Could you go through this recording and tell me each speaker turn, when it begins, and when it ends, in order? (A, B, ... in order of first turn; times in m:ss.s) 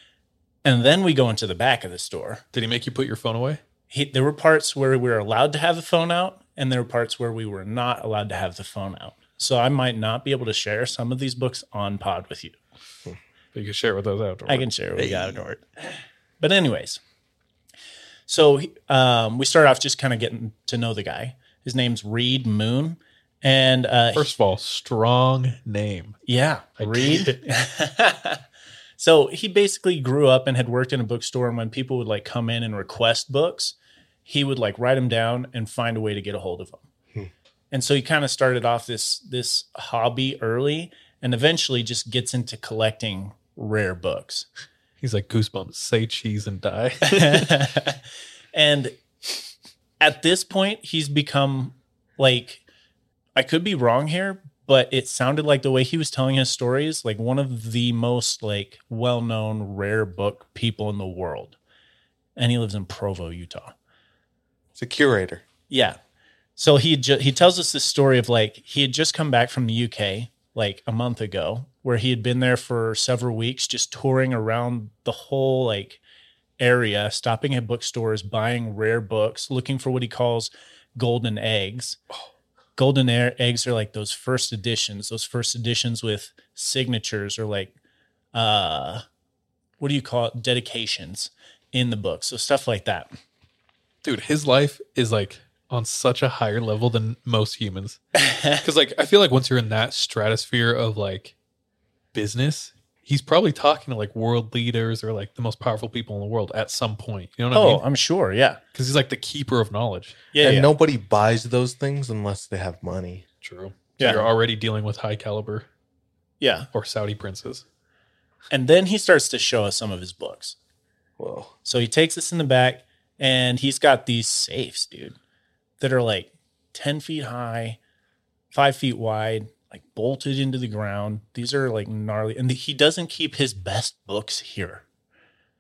0:00.6-0:02.4 A
0:02.5-0:03.6 B
0:03.9-0:12.6 A
0:13.5-0:15.4 B
0:14.5-0:15.6 A
0:16.4-0:17.0 A
0:18.3-0:24.3 A
0:24.2-0:26.2 B
0:26.3-0:28.4 A
0:26.8-0:27.4 B
0:29.0-0:36.8 A
0:37.7-0:44.5 A
0:45.0-0:47.7 B
0:47.1-0:48.0 A
0:48.5-0:48.9 A
0:50.0-0:52.6 A
0:53.4-1:01.6 A
1:02.4-1:03.7 A
1:04.8-1:05.4 C
1:05.7-1:06.0 A
1:06.6-1:16.0 A
1:16.6-1:22.0 A
1:22.8-1:27.8 A
1:28.3-1:29.0 A
1:29.8-1:33.1 A
1:34.0-1:38.0 B
1:38.2-1:38.6 A
1:38.6-1:41.3 B
1:42.1-1:47.8 B
1:47.5-1:48.6 A
1:48.7-1:50.3 B
1:50.3-1:50.7 A
1:50.4-1:53.3 C
1:53.4-1:55.7 B
1:54.0-1:54.3 A
1:56.4-1:56.7 A
1:56.7-1:57.6 B
1:58.5-2:00.6 A
2:01.2-2:01.6 C
2:01.6-2:05.2 A
2:05.8-2:07.8 A
2:08.5-2:14.8 A